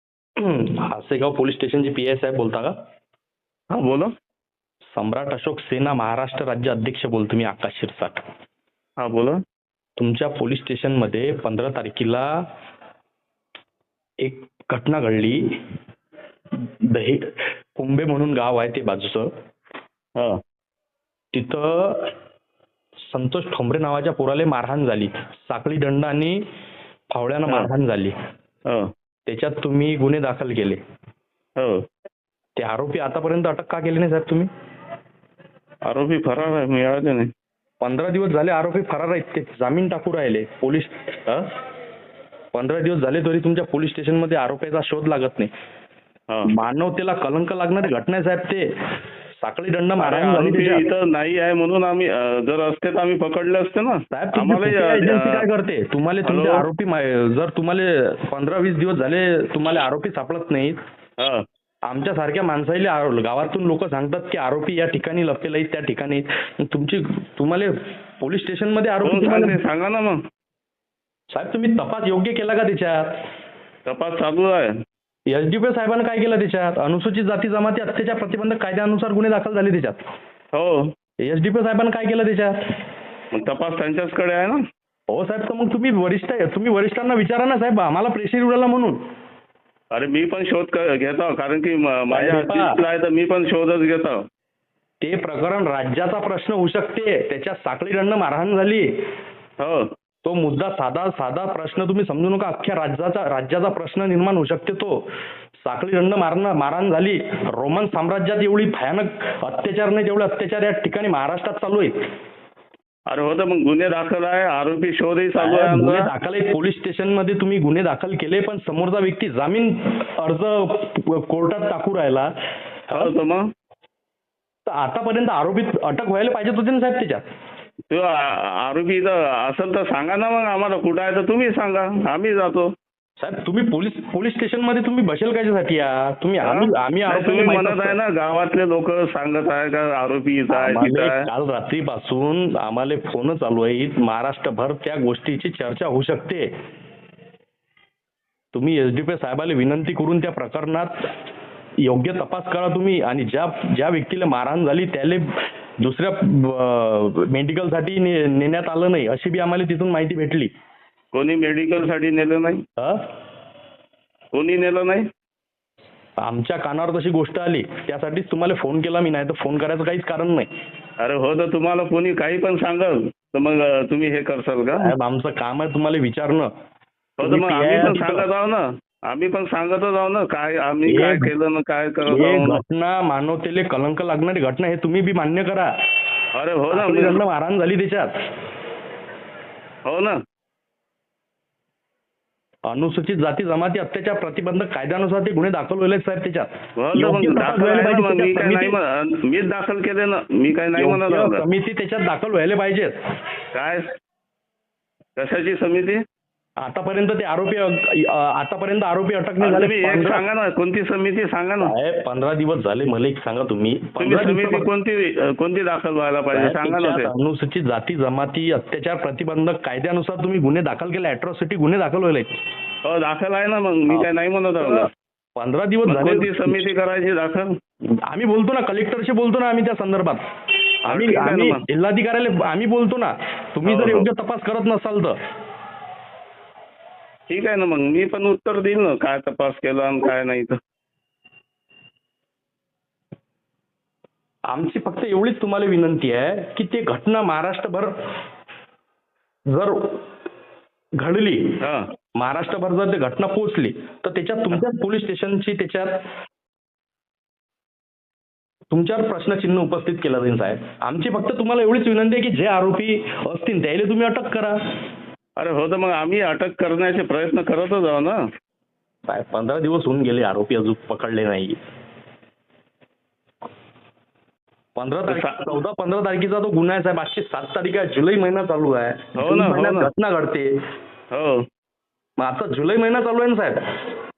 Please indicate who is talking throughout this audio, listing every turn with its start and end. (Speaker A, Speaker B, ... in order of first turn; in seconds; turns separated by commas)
Speaker A: 0.4-2.7, Speaker B: 3.7-4.1, Speaker A: 4.9-8.2, Speaker B: 9.0-9.4, Speaker A: 10.0-12.3, Speaker A: 14.2-15.5, Speaker A: 16.6-19.3, Speaker A: 21.3-22.1, Speaker A: 23.1-26.4, Speaker A: 27.1-28.1, Speaker A: 29.3-30.8, Speaker B: 31.6-31.8, Speaker A: 32.6-34.5, Speaker B: 35.9-37.3, Speaker A: 37.8-41.5, Speaker A: 42.5-45.5, Speaker A: 46.5-48.7, Speaker A: 49.4-50.8, Speaker B: 50.0-55.5, Speaker A: 54.1-60.8, Speaker B: 56.2-56.6, Speaker B: 61.2-61.5, Speaker A: 61.9-69.6, Speaker B: 69.0-70.2, Speaker A: 71.3-73.1, Speaker B: 73.9-74.7, Speaker A: 75.3-80.0, Speaker B: 80.5-80.9, Speaker A: 81.2-82.6, Speaker B: 83.3-84.6, Speaker A: 85.1-89.0, Speaker B: 89.9-94.2, Speaker A: 92.1-92.8, Speaker A: 95.0-98.9, Speaker B: 99.6-99.9, Speaker A: 100.2-105.0, Speaker A: 105.6-111.9, Speaker B: 113.1-116.1, Speaker A: 115.4-122.3, Speaker B: 122.9-123.5, Speaker A: 124.7-127.2, Speaker B: 127.9-132.7, Speaker A: 133.2-138.0, Speaker B: 136.4-141.3, Speaker A: 140.5-146.5, Speaker A: 148.5-150.9, Speaker A: 151.8-160.5, Speaker B: 161.1-162.6, Speaker B: 164.3-165.1, Speaker A: 166.2-170.5, Speaker B: 171.0-174.9, Speaker A: 174.8-176.5, Speaker B: 177.2-182.6, Speaker A: 177.2-178.3, Speaker A: 180.9-181.3, Speaker A: 182.1-185.7, Speaker B: 186.3-187.2, Speaker A: 186.7-188.1, Speaker B: 189.9-190.2, Speaker A: 192.7-198.8, Speaker B: 196.8-201.4, Speaker A: 200.8-202.9, Speaker B: 203.5-203.9, Speaker B: 205.2-206.0, Speaker A: 206.6-210.2, Speaker B: 209.4-211.7, Speaker A: 211.6-214.7, Speaker B: 214.0-217.1, Speaker A: 216.3-222.3, Speaker B: 222.8-224.9, Speaker A: 223.9-226.6, Speaker B: 225.9-227.5, Speaker A: 228.1-230.2, Speaker A: 230.8-235.2, Speaker B: 230.9-231.6, Speaker B: 233.7-234.1, Speaker B: 237.3-240.6, Speaker A: 244.5-247.9, Speaker A: 249.5-250.0, Speaker A: 251.0-251.6, Speaker B: 251.6-251.9, Speaker A: 252.2-255.9, Speaker A: 258.7-264.6, Speaker B: 265.4-268.2, Speaker A: 269.1-271.6, Speaker A: 274.8-280.5, Speaker B: 275.1-275.5, Speaker B: 279.2-279.9, Speaker B: 281.1-281.4, Speaker A: 282.2-283.6